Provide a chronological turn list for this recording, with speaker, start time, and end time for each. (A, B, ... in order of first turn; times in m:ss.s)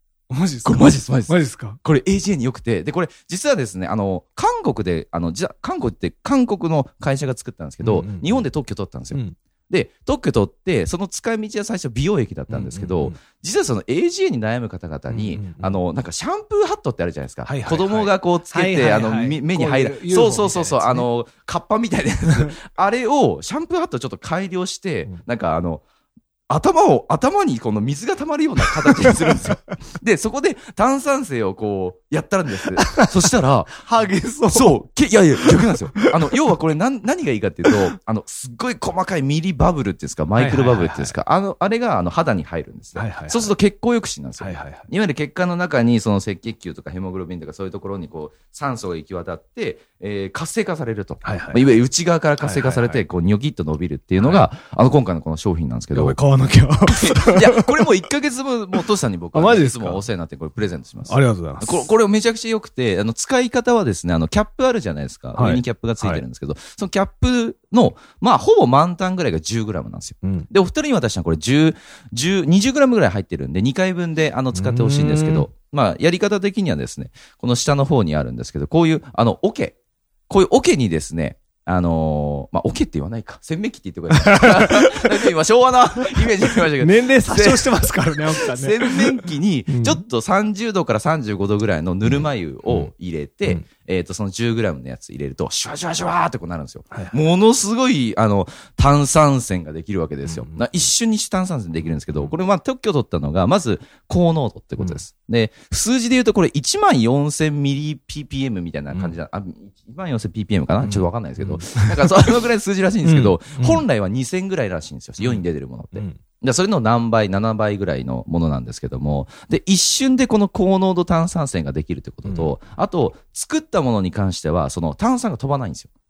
0:00.3-0:01.8 A
0:00.6-0:25.8 B
0:07.8-0:08.4 A
0:09.1-0:09.4 A
0:12.5-0:13.2 A
0:15.1-0:15.8 A
0:17.4-0:21.1 A
0:22.3-0:22.5 A
0:26.5-0:33.8 B
0:28.9-0:29.4 A
0:32.8-0:34.7 A
0:34.5-0:56.2 B
0:35.4-0:36.1 A
0:40.4-0:41.2 A
0:42.9-0:43.5 A
0:44.4-0:44.9 A
0:51.2-0:51.6 A
0:52.4-0:53.0 A
0:54.2-0:54.5 A
0:55.9-0:57.8 A
0:56.8-1:19.8 B
0:59.3-1:00.0 A
1:01.1-1:01.9 A
1:05.3-1:06.2 A
1:10.2-1:10.5 A
1:14.5-1:15.5 A
1:20.3-2:05.9 B
1:24.1-1:25.2 A
1:26.2-1:30.0 A
1:32.0-1:32.9 A
1:36.9-1:37.2 A
1:40.2-1:40.9 A
1:44.8-1:45.0 A
1:50.8-1:52.2 A
1:53.0-1:53.8 A
1:55.2-1:56.2 A
2:02.2-2:02.5 A